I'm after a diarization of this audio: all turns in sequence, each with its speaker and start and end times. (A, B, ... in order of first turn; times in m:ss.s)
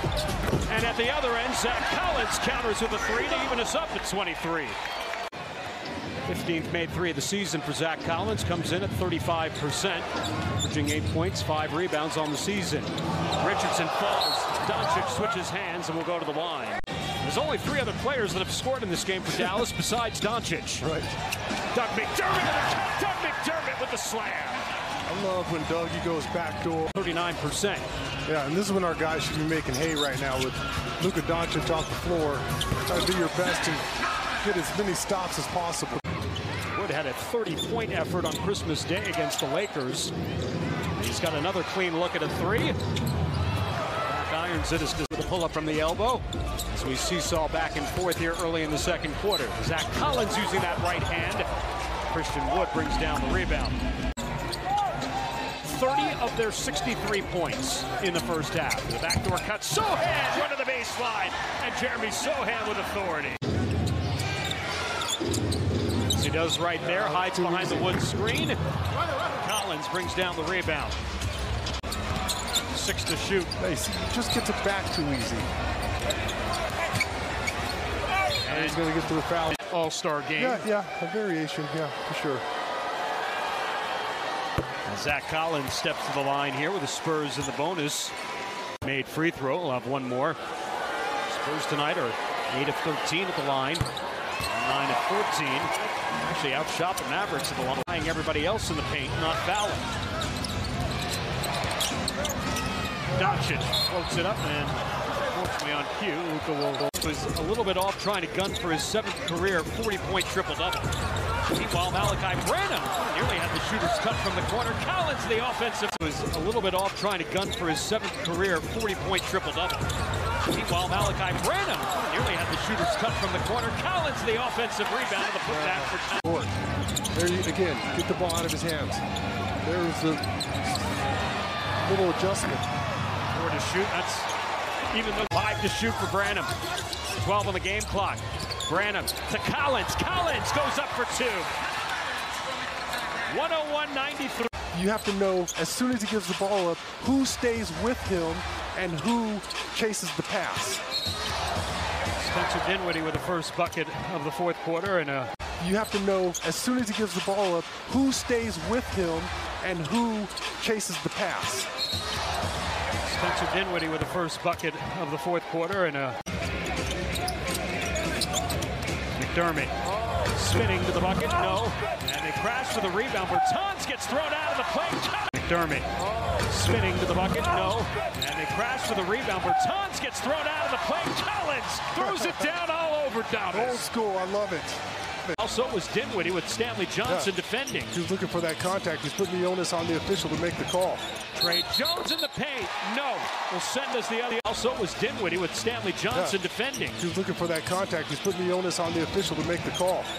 0:00.6-0:04.8 A
0:06.2-0:20.8 A
0:20.8-0:21.1 B
0:21.7-0:24.6 A
0:25.0-0:26.9 B
0:26.9-0:27.9 A
0:28.2-0:33.8 B
0:34.4-0:36.0 B
0:36.7-0:40.1 A
0:41.0-0:42.7 A
0:44.0-0:51.4 A
0:52.1-0:53.8 A
0:55.6-1:03.4 A
1:06.2-1:08.6 A
1:06.8-1:08.0 B
1:09.4-1:11.0 A
1:12.7-1:13.5 A
1:13.6-1:15.5 B
1:18.4-1:18.8 A
1:18.5-1:19.6 B
1:19.5-1:20.6 A
1:20.4-1:22.4 B
1:24.8-1:28.1 A
1:28.8-1:30.4 A
1:31.3-1:33.8 A
1:34.5-1:39.9 A
1:43.1-1:44.8 A
1:45.3-1:50.9 A
1:51.5-1:59.9 A
2:00.5-2:06.2 A
2:05.4-2:06.5 B
2:07.1-2:09.0 B
2:09.6-2:10.3 B
2:11.8-2:12.6 B
2:13.3-2:14.3 A
2:14.9-2:16.5 A
2:17.1-2:21.5 A
2:23.2-2:24.5 A
2:24.7-2:30.8 B
2:32.2-2:35.3 A
2:35.6-2:41.7 B
2:43.0-2:46.2 A
2:49.2-2:49.8 A
2:50.3-2:55.9 A
2:56.4-3:03.9 A
3:02.0-3:02.5 B
3:03.5-3:05.4 B
3:05.4-3:07.9 A
3:07.1-3:07.3 B
3:07.9-3:11.0 B
3:11.4-3:17.0 A
3:16.1-3:16.4 B
3:17.0-3:20.1 B